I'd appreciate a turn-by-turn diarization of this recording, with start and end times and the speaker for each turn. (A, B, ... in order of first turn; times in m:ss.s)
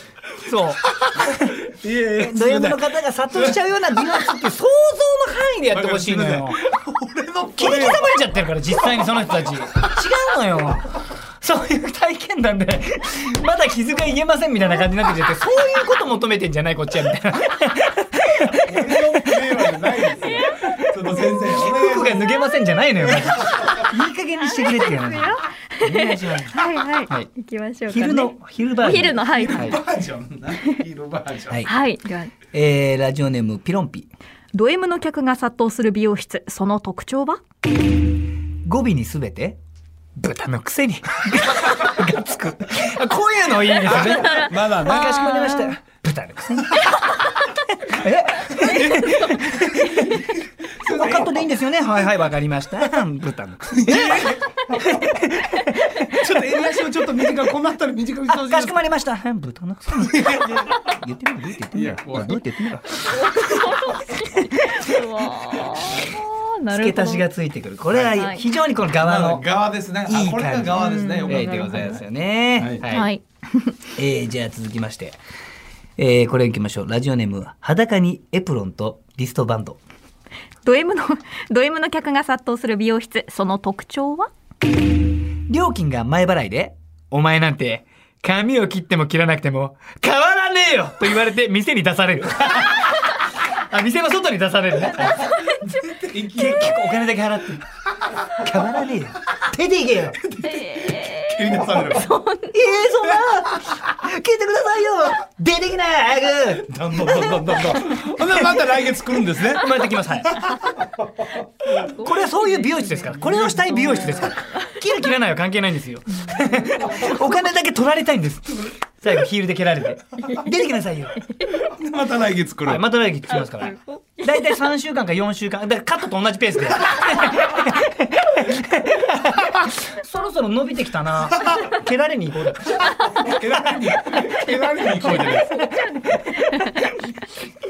0:00.4-0:01.6 A
0:00.8-0:03.5 B
0:02.2-0:06.6 A
0:05.7-0:08.1 B
0:07.6-0:19.0 A
0:18.6-0:22.4 B
0:20.2-0:20.8 C
0:21.5-0:27.3 A
0:23.0-0:23.9 B
0:24.4-0:29.8 C
0:27.9-0:29.8 A
0:29.3-0:31.6 B
0:31.6-0:32.3 C
0:32.5-0:34.1 A
0:34.5-0:37.4 C
0:38.6-0:39.6 A
0:40.2-0:47.2 A
0:43.8-0:45.8 C
0:43.8-0:45.5 B
0:47.8-0:50.2 A
0:48.4-0:50.1 C
0:50.8-0:51.3 B
0:50.8-0:56.0 A
0:53.7-0:54.8 B
0:56.1-0:58.8 B
0:58.4-1:03.6 A
1:00.0-1:00.8 B
1:01.7-1:02.4 B
1:03.1-1:07.2 C
1:05.9-1:06.1 B
1:06.7-1:09.4 A
1:07.9-1:08.2 B
1:08.1-1:08.4 C
1:08.9-1:12.0 B
1:10.0-1:13.1 A
1:10.7-1:12.0 C
1:12.6-1:12.8 B
1:12.9-1:13.8 C
1:14.0-1:15.2 A
1:16.0-1:19.8 A
1:20.6-1:24.3 C
1:25.5-1:35.3 A
1:35.2-1:35.5 C
1:35.6-1:37.1 B
1:36.2-1:37.6 A
1:38.4-1:40.2 A
1:40.3-1:42.0 B
1:40.4-1:42.6 C
1:42.5-1:48.5 A
1:46.7-1:49.7 B
1:49.5-1:50.5 A
1:51.6-1:54.8 C
1:52.0-2:01.2 A
1:53.3-1:54.3 B
1:56.1-1:57.1 C
2:00.2-2:00.5 C
2:01.3-2:01.6 C
2:01.6-2:02.8 B
2:02.6-2:14.0 A
2:03.3-2:04.6 C
2:13.1-2:15.6 B
2:14.2-2:17.2 C